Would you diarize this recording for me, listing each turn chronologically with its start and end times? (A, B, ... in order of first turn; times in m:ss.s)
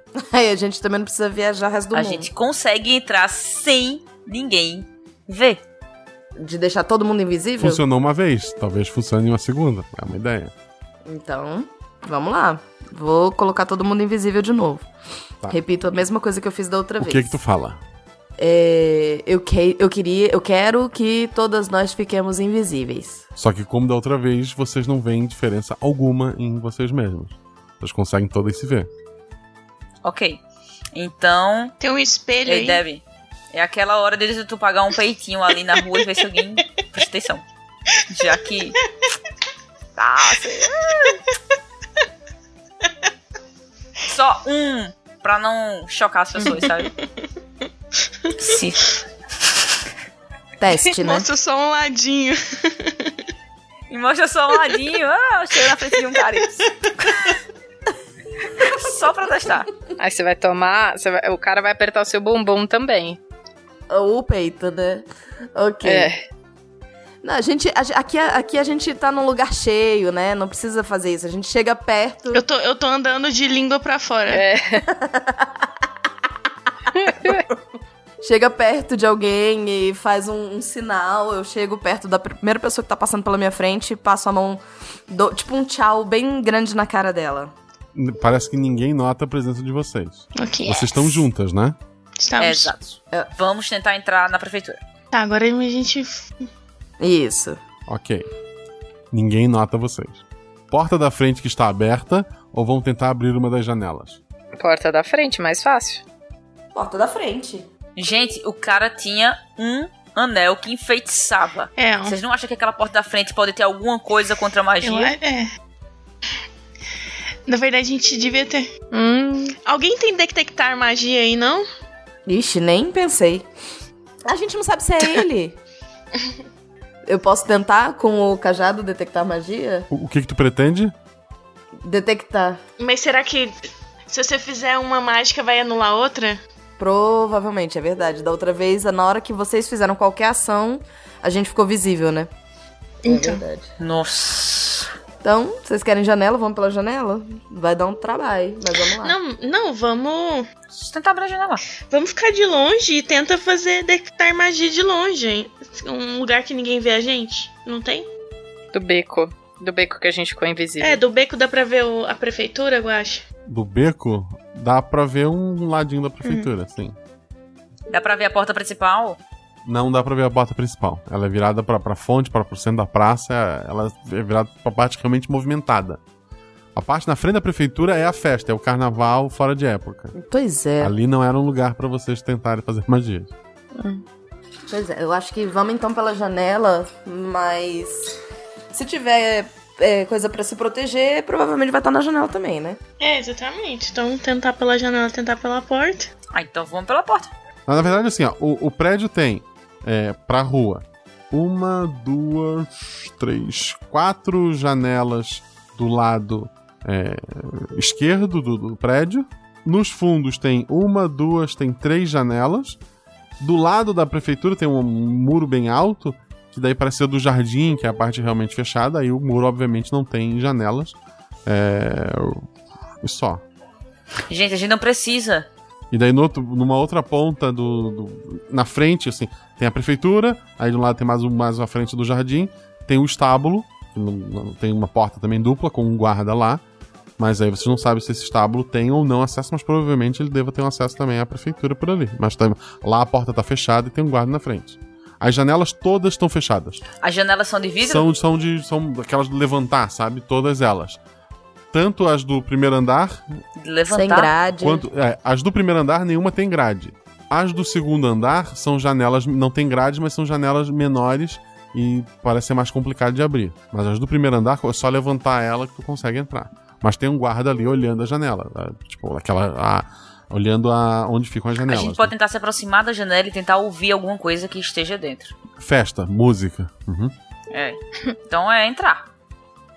0:00.2-0:02.3 A
0:01.9-0:05.6 B
0:06.4-0:07.8 A
0:07.6-0:10.5 C
0:11.1-0:14.9 A
0:15.5-0:17.3 A
0:17.0-0:17.8 C
0:18.4-0:23.2 A
0:23.4-0:28.9 C
0:30.0-0:30.4 B
0:30.9-0:31.7 B
0:31.8-0:32.8 D
0:32.4-0:33.0 B
0:33.5-0:37.4 B
0:38.1-0:38.8 B
0:40.0-0:41.1 B
0:44.1-0:46.9 B
0:48.4-0:48.9 B
0:50.6-0:51.3 A
0:50.9-0:53.1 D
0:53.9-0:57.3 B
0:58.6-0:59.7 B
1:00.0-1:03.2 E
1:03.9-1:06.1 A
1:05.8-1:06.2 E
1:07.2-1:12.4 A
1:12.3-1:14.4 D
1:14.3-1:14.8 E
1:14.9-1:15.7 A
1:16.9-1:17.4 E
1:18.2-1:27.5 A
1:27.9-1:31.8 C
1:30.3-1:31.2 D
1:32.2-1:32.7 D
1:32.4-1:34.8 B
1:35.1-1:36.3 D
1:37.0-1:37.6 A
1:37.9-1:38.2 C
1:39.1-1:44.2 C
1:44.6-1:46.0 E
1:46.7-1:47.6 A
1:48.0-1:55.2 B
1:51.8-1:52.2 D
1:54.8-1:55.5 D
1:57.5-1:58.7 D
1:58.9-1:59.6 E
1:59.6-2:01.6 D
2:02.3-2:03.4 A
2:04.2-2:05.6 A
2:07.1-2:09.9 A
2:09.9-2:10.9 C
2:11.8-2:12.6 A
2:12.8-2:13.5 D
2:14.1-2:16.4 D
2:16.8-2:22.3 A
2:23.0-2:23.4 D
2:23.0-2:23.7 A
2:23.8-2:24.9 B
2:25.2-2:29.2 A
2:29.0-2:30.5 D
2:30.7-2:31.6 B
2:31.9-2:38.1 D
2:38.7-2:41.0 E
2:40.8-2:43.2 D
2:43.5-2:46.9 C
2:47.9-2:49.2 B
2:49.6-2:56.0 C
2:56.7-3:00.1 C
3:00.1-3:00.9 A
3:00.8-3:03.3 C
3:03.8-3:04.0 E
3:04.7-3:08.1 A
3:08.7-3:12.8 A
3:13.0-3:16.1 D
3:16.3-3:17.3 B
3:17.7-3:32.8 C
3:33.4-3:42.4 C
3:43.0-3:43.4 C
3:44.3-3:45.5 B
3:45.9-3:56.6 C
3:57.2-4:06.8 C
4:07.0-4:08.1 B
4:07.8-4:11.0 C
4:11.7-4:13.2 C
4:13.6-4:14.3 B
4:13.9-4:14.8 A
4:14.6-4:32.1 C
4:31.6-4:35.3 B
4:35.6-4:37.1 C
4:37.5-4:39.0 B